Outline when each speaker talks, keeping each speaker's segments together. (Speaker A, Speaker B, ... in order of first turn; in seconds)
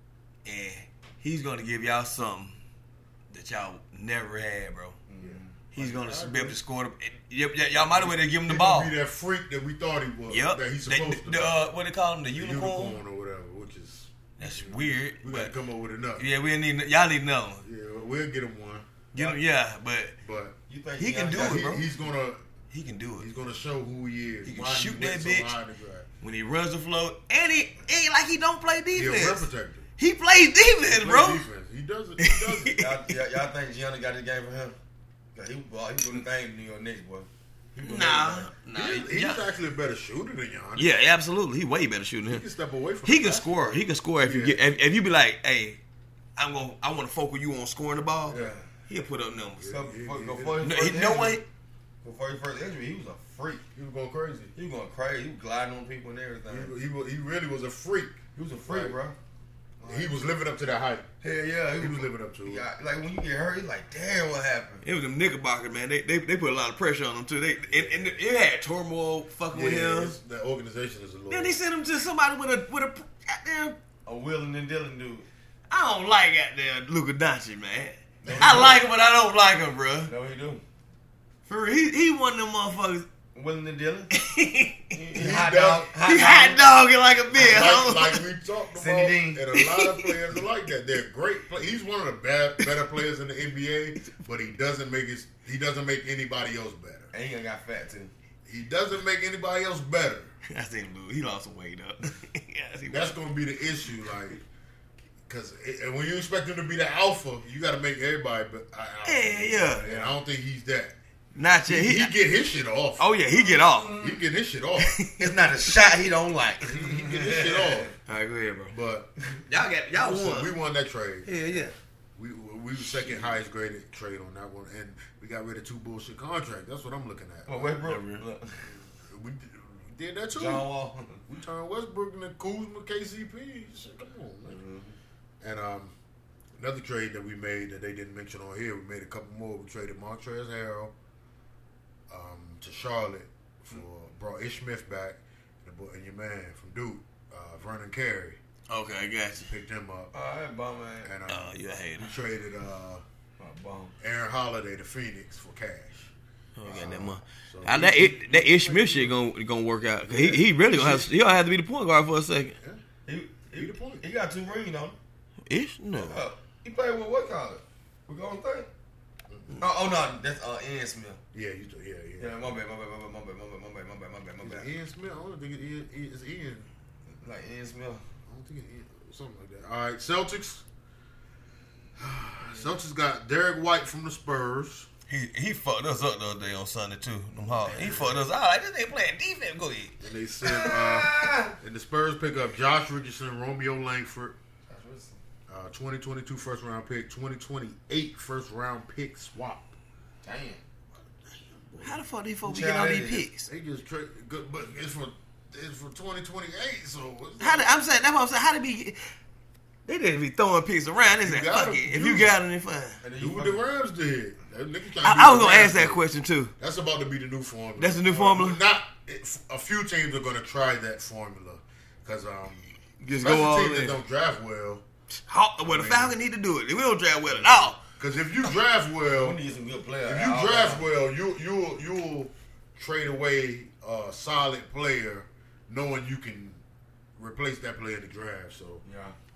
Speaker A: 0.4-2.6, 3.3-5.0, 5.7-8.9, 10.3-13.0, 14.4-15.5, 16.2-17.6, 19.1-20.1, 21.0-21.8, 22.7-23.3, 24.4-25.5, 26.2-29.4, 30.0-31.4, 32.2-33.1, 37.8-39.4, 40.8-42.4, 43.0-45.8, 46.4-49.7, 50.6-51.4, 64.8-70.2, 71.3-73.8, 75.7-80.1, 81.5-83.1, 84.1-84.9, 86.0-88.2, 89.5-90.3, 100.5-103.2, 109.0-109.8, 111.3-112.1, 113.0-114.0, 114.8-115.5, 118.0-118.7, 119.5-120.5, 121.2-121.7, 127.8-128.2, 148.7-149.5, 151.3-152.2, 156.6-162.6, 165.4-166.2, 185.1-189.9, 201.8-203.5, 207.4-209.0, 209.8-213.0, 215.0-216.5, 217.8-218.6, 223.0-224.0, 225.3-227.8
Speaker B: 5.1-5.5, 20.7-21.8, 32.8-34.8, 35.3-38.5, 48.3-48.7, 49.6-51.4, 52.0-53.6, 54.5-56.7, 58.3-59.1, 59.8-60.2, 61.2-64.8, 74.0-75.3, 78.2-78.8, 80.1-80.6, 83.3-84.1, 84.9-86.6, 88.7-89.4, 97.1-98.1, 109.7-110.2, 113.3-114.2, 115.2-117.9, 127.5-128.7, 130.3-131.2, 134.4-134.9, 150.1-151.1, 153.4-153.9, 160.1-161.1, 163.1-165.0, 166.0-168.7, 169.6-171.2, 172.2-174.7, 177.1-178.0, 182.4-182.7, 190.4-191.5, 194.7-195.2, 200.2-200.6, 202.4-203.3, 213.0-213.6, 229.1-230.9, 238.8-239.2
Speaker C: 5.2-6.6, 7.8-11.6, 12.3-16.2, 17.6-18.9, 20.2-20.6, 21.3-22.4, 23.2-26.1, 28.9-29.9, 30.9-32.8, 38.7-40.9, 42.2-44.6, 48.3-48.5, 49.6-50.7, 53.7-54.5, 56.5-59.0, 59.8-61.1, 61.8-62.6, 67.6-68.2, 69.5-71.6, 78.3-78.7, 85.1-85.9, 87.3-97.1, 98.5-100.3, 102.9-104.4, 105.2-110.9, 111.7-113.1, 114.0-115.0, 116.6-117.9, 118.7-119.1, 119.9-121.3, 122.2-130.7, 131.3-134.6, 135.4-135.9, 136.6-140.9, 142.1-148.4, 149.4-150.1, 151.0-153.0, 154.0-156.1, 156.7-159.2, 163.6-164.0, 169.3-169.6, 171.3-172.6, 174.4-176.7, 178.3-180.6, 182.0-184.9, 187.4-188.2, 190.0-194.3, 195.5-199.8, 201.3-202.0, 203.5-207.7, 211.1-212.4, 213.2-216.0, 216.6-224.8, 225.6-226.2, 227.2-229.4, 230.0-236.6, 237.2-238.8